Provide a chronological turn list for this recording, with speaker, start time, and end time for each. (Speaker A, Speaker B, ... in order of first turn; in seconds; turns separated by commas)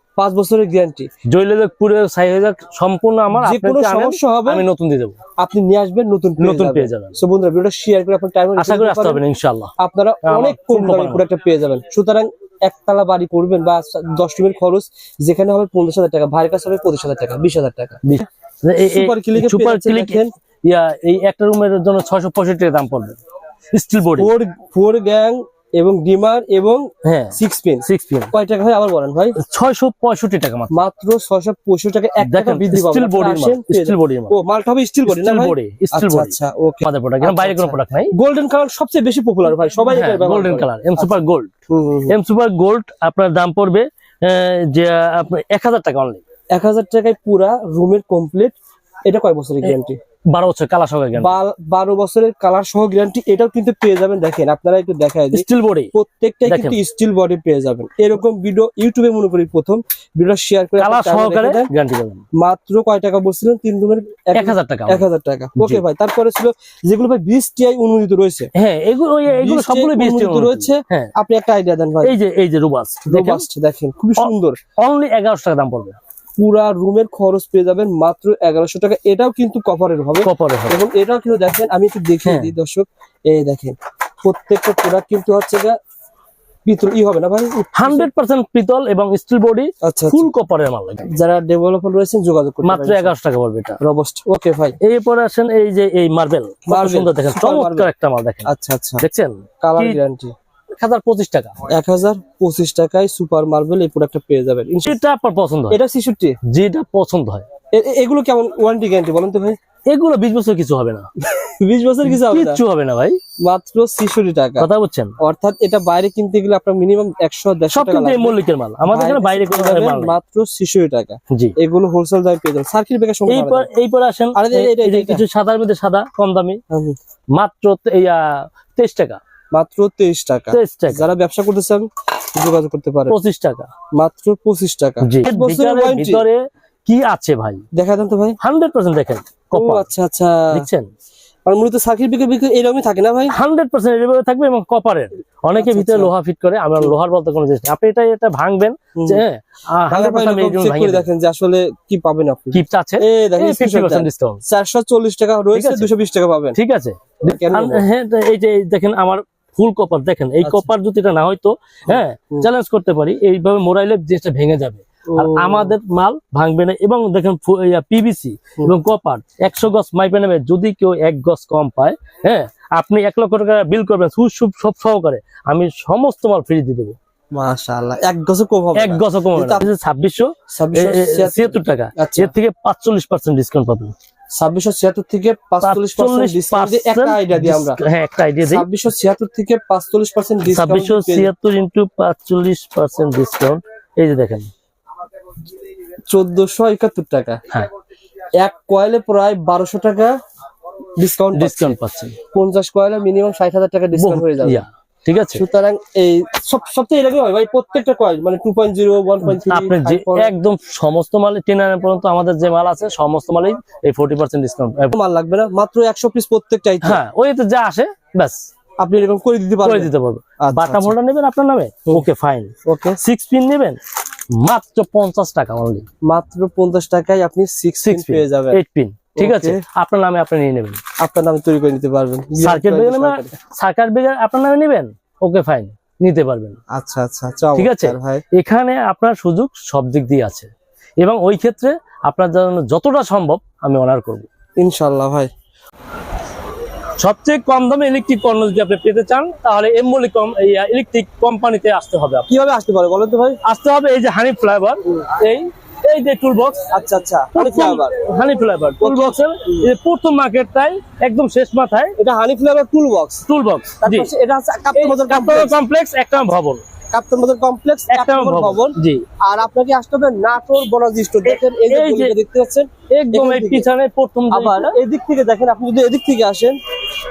Speaker A: 0.2-1.1, Speaker B: 1.3-5.2, Speaker A: 3.3-4.6, Speaker A: 5.4-9.2, Speaker B: 6.4-7.2, Speaker B: 8.6-9.7, Speaker A: 9.8-18.0, Speaker B: 10.2-11.2, Speaker B: 18.0-23.2, Speaker A: 18.8-20.3, Speaker B: 23.7-24.3, Speaker A: 24.1-29.4, Speaker B: 27.0-28.3, Speaker B: 29.4-30.7, Speaker A: 30.7-41.1, Speaker B: 32.2-34.3, Speaker B: 35.0-38.1, Speaker B: 39.9-41.5, Speaker A: 41.7-42.1, Speaker B: 42.1-46.2, Speaker A: 46.5-50.0, Speaker B: 50.3-51.3, Speaker A: 51.2-61.7, Speaker B: 55.3-55.9, Speaker B: 56.5-56.8, Speaker B: 60.8-62.2, Speaker A: 62.3-68.5, Speaker B: 64.3-65.8, Speaker B: 68.5-71.1, Speaker A: 69.3-72.2, Speaker B: 72.0-73.5, Speaker A: 73.1-74.6, Speaker B: 74.2-76.0, Speaker A: 76.4-85.7, Speaker B: 80.2-80.8, Speaker B: 82.2-82.5, Speaker A: 86.7-88.1, Speaker B: 87.7-91.1, Speaker A: 89.8-90.3, Speaker A: 91.1-93.1, Speaker B: 92.6-93.8, Speaker A: 93.8-94.8, Speaker B: 94.8-100.0, Speaker A: 96.7-97.9, Speaker A: 98.5-99.0, Speaker A: 99.6-100.3, Speaker B: 100.8-101.6, Speaker A: 101.7-105.0, Speaker B: 104.8-105.8, Speaker A: 105.7-106.4, Speaker B: 106.4-107.5, Speaker A: 107.7-109.6, Speaker B: 109.9-111.1, Speaker A: 111.4-112.6, Speaker B: 112.0-113.2, Speaker A: 113.4-114.7, Speaker B: 114.6-115.1, Speaker A: 115.2-123.7, Speaker B: 117.7-120.2, Speaker B: 123.3-126.6, Speaker A: 124.3-125.2, Speaker A: 126.7-127.0, Speaker B: 127.3-129.2, Speaker A: 129.5-133.2, Speaker B: 130.5-131.1, Speaker B: 133.1-133.7, Speaker A: 133.9-136.2, Speaker B: 135.0-137.6, Speaker A: 137.7-138.4, Speaker B: 138.4-139.9, Speaker A: 139.5-140.7, Speaker B: 140.5-140.9, Speaker A: 141.4-143.3, Speaker B: 143.3-151.1, Speaker A: 145.6-146.1, Speaker A: 148.9-149.2, Speaker A: 149.9-156.6, Speaker B: 152.5-154.4, Speaker B: 155.5-155.9, Speaker B: 156.5-176.9, Speaker A: 157.2-157.8, Speaker A: 160.4-160.7, Speaker A: 161.9-162.5, Speaker A: 165.1-165.7, Speaker A: 177.3-179.7, Speaker B: 178.7-183.9, Speaker A: 180.5-182.3, Speaker A: 184.3-187.8, Speaker B: 185.6-188.7, Speaker A: 188.4-191.3, Speaker B: 190.5-194.5, Speaker A: 196.1-197.4, Speaker A: 198.4-200.1, Speaker A: 201.0-201.7, Speaker B: 201.3-202.2, Speaker A: 202.3-204.6, Speaker B: 203.9-205.4, Speaker A: 205.3-210.3, Speaker B: 209.3-214.9, Speaker A: 214.9-217.0, Speaker B: 216.8-218.5, Speaker A: 218.8-220.9, Speaker B: 219.6-223.8, Speaker A: 222.6-223.0, Speaker B: 224.3-225.8, Speaker A: 226.1-228.6, Speaker B: 227.8-230.8, Speaker A: 229.2-229.6, Speaker A: 231.0-233.3, Speaker B: 232.4-236.6, Speaker A: 236.7-238.2, Speaker B: 237.6-244.3, Speaker A: 244.6-245.3, Speaker B: 247.0-252.3, Speaker A: 252.3-253.4, Speaker B: 253.4-256.7, Speaker A: 256.7-258.0, Speaker B: 257.3-261.9, Speaker A: 258.8-259.7, Speaker A: 262.0-263.2, Speaker B: 263.3-264.1, Speaker A: 263.8-265.6, Speaker B: 264.7-266.6, Speaker A: 266.9-273.7, Speaker B: 267.9-269.0, Speaker B: 271.2-272.1, Speaker B: 272.9-274.8, Speaker A: 274.3-276.6